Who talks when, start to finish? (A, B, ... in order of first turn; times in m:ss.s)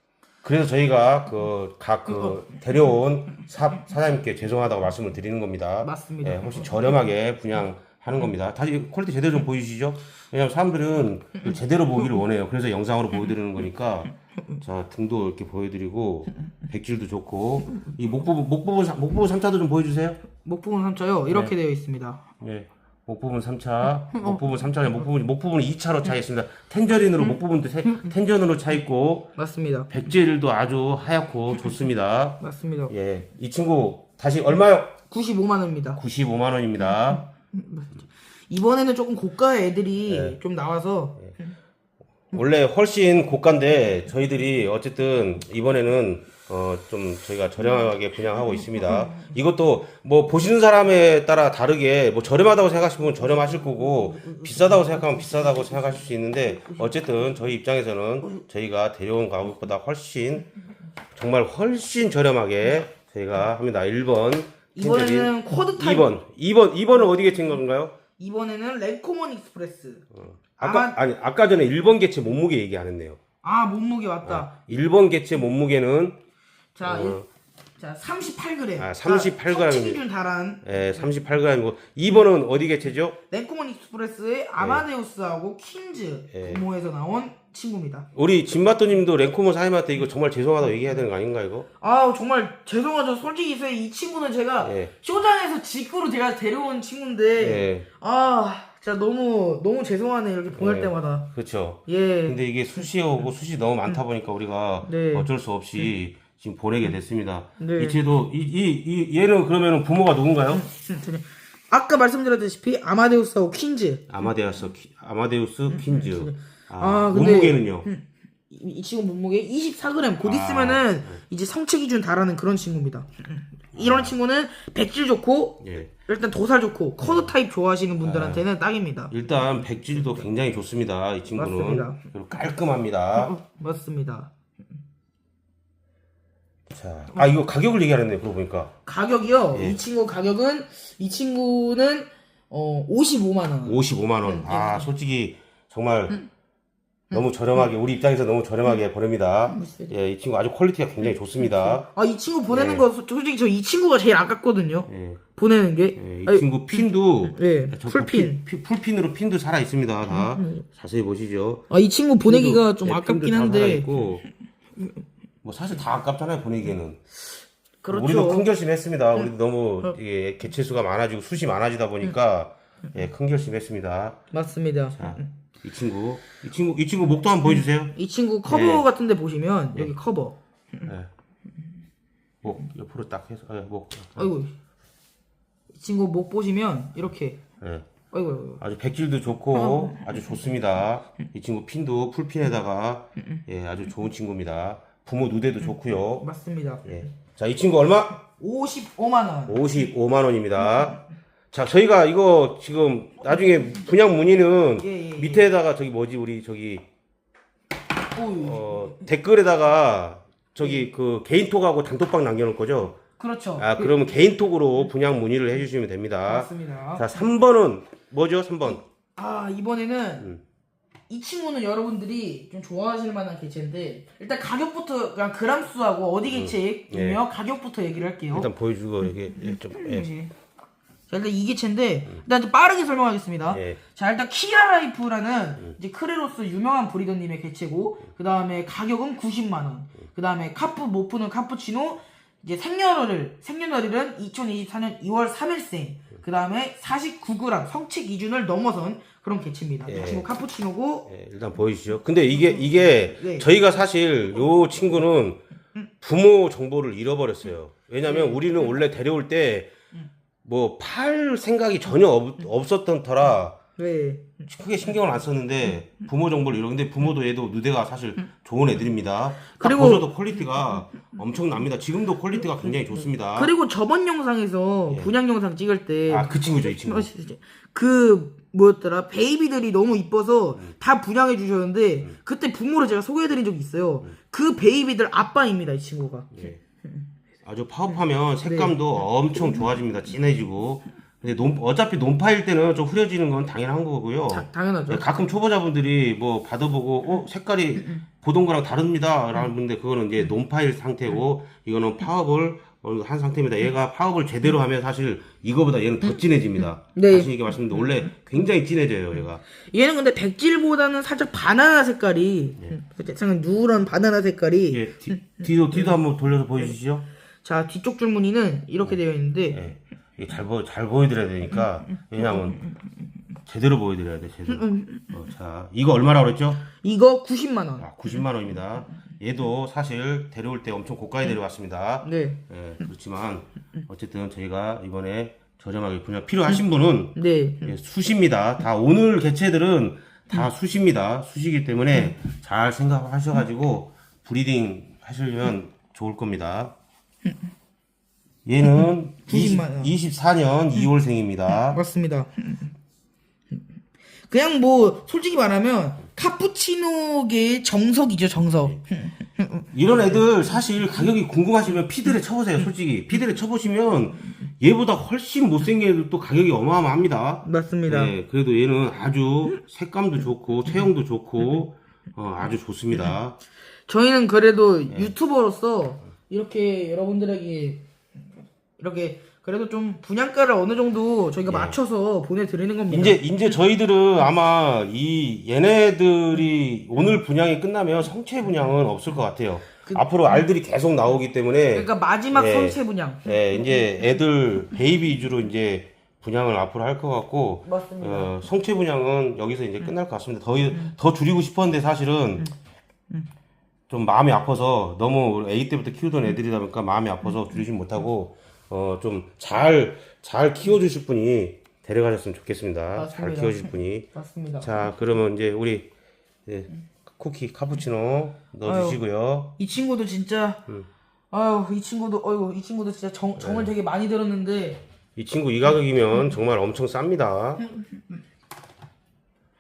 0:00.4-0:20.2 A
0:02.1-0:02.4 B
0:05.8-0:07.0 B
0:20.4-0:22.2 B
0:22.4-0:29.3 A
0:24.1-0:24.5 B
0:29.4-0:29.9 B
0:29.9-0:35.0 A
0:32.4-0:32.9 B
0:35.1-0:36.0 B
0:36.0-0:37.2 A
0:36.8-0:41.5 B
0:40.0-0:40.4 A
0:42.3-1:00.5 A
0:48.9-0:49.3 B
0:53.1-0:57.3 B
1:01.2-1:08.0 A
1:04.8-1:06.2 B
1:08.2-1:10.1 B
1:10.1-1:13.2 A
1:10.6-1:11.0 B
1:13.4-1:14.6 B
1:14.2-1:16.2 A
1:16.8-1:17.2 B
1:16.8-1:17.3 A
1:17.8-1:20.7 B
1:18.8-1:20.0 A
1:20.6-1:23.2 A
1:23.3-1:28.1 B
1:24.6-1:24.8 A
1:26.3-1:26.6 A
1:28.2-1:31.7 A
1:31.8-1:41.3 B
1:34.6-1:34.9 A
1:37.4-1:37.9 A
1:40.5-1:50.6 A
1:41.9-1:42.9 B
1:44.8-1:45.9 B
1:47.6-1:48.0 B
1:50.5-1:54.1 B
1:54.1-1:57.9 A
1:55.7-2:09.1 B
2:00.2-2:01.2 A
2:03.8-2:04.2 A
2:05.6-2:05.9 A
2:07.0-2:07.3 A
2:08.0-2:08.5 A
2:09.1-2:13.3 A
2:11.3-2:12.0 B
2:13.2-2:14.3 B
2:16.7-2:18.7 A
2:18.8-2:24.9 B
2:19.5-2:19.8 A
2:23.6-2:26.2 A
2:27.1-2:31.9 A
2:29.5-2:29.9 B
2:31.4-2:38.4 B
2:32.5-2:32.9 A
2:34.9-2:35.2 A
2:36.0-2:41.6 A
2:40.1-2:40.6 B
2:41.7-2:44.0 B
2:42.2-2:44.2 A
2:45.4-2:47.0 A
2:47.8-2:48.5 B
2:47.9-2:54.2 A
2:54.3-2:55.3 B
2:55.0-2:57.9 A
2:57.4-3:00.9 B
2:58.5-2:58.8 A
3:02.4-3:04.3 A
3:04.2-3:04.5 B
3:05.8-3:07.4 B
3:08.1-3:08.6 B
3:08.6-3:16.3 A
3:09.5-3:10.3 B
3:15.7-3:17.1 B
3:16.9-3:18.2 A
3:18.2-3:19.6 B
3:19.5-3:21.0 A
3:21.5-3:26.8 A
3:24.8-3:25.5 B
3:28.2-3:29.1 B
3:28.4-3:33.0 A
3:33.2-3:34.0 B
3:33.6-3:38.8 A
3:36.3-3:37.3 B
3:39.2-3:40.3 B
3:41.1-3:48.5 B
3:46.3-3:47.2 A
3:48.3-3:50.1 A
3:49.0-3:50.3 B
3:51.1-4:11.1 B
3:53.5-3:53.8 A
4:09.9-4:10.3 A
4:11.1-4:15.4 A
4:12.4-4:13.5 B
4:16.0-4:19.7 A
4:18.1-4:18.7 B
4:20.4-4:23.6 A
4:23.8-4:24.5 B
4:24.5-4:33.5 A
4:29.5-4:30.2 B
4:32.9-4:47.1 B
4:36.1-4:37.1 A
4:47.4-5:09.4 A
4:47.9-4:48.8 B
4:54.3-4:55.1 B
4:57.8-4:58.0 B
5:06.9-5:08.1 B
5:09.6-5:16.0 B
5:14.7-5:17.1 A
5:17.4-5:19.6 B
5:19.5-5:22.6 A
5:22.0-5:22.8 B
5:23.5-5:26.7 A
5:24.5-5:25.2 B
5:26.8-5:27.9 B
5:27.8-5:46.7 A
5:32.0-5:32.9 B
5:37.2-5:37.8 B
5:48.5-5:51.8 A
5:49.3-5:49.9 B
5:51.5-5:52.7 B
5:54.3-6:00.2 B
5:59.7-6:13.4 A
6:07.4-6:08.1 B
6:13.9-6:17.8 B
6:18.8-6:23.3 B
6:21.4-6:21.8 A
6:22.9-6:42.5 A
6:29.8-6:30.5 B
6:31.7-6:34.0 B
6:37.6-6:38.4 B
6:43.9-6:54.1 A
6:53.0-6:54.9 B
6:54.6-6:55.9 A
6:56.5-6:59.6 A
6:58.6-6:59.0 B
6:59.6-7:00.6 B
7:01.3-7:04.8 B
7:03.4-7:03.7 A
7:05.2-7:07.6 A
7:07.6-7:08.0 B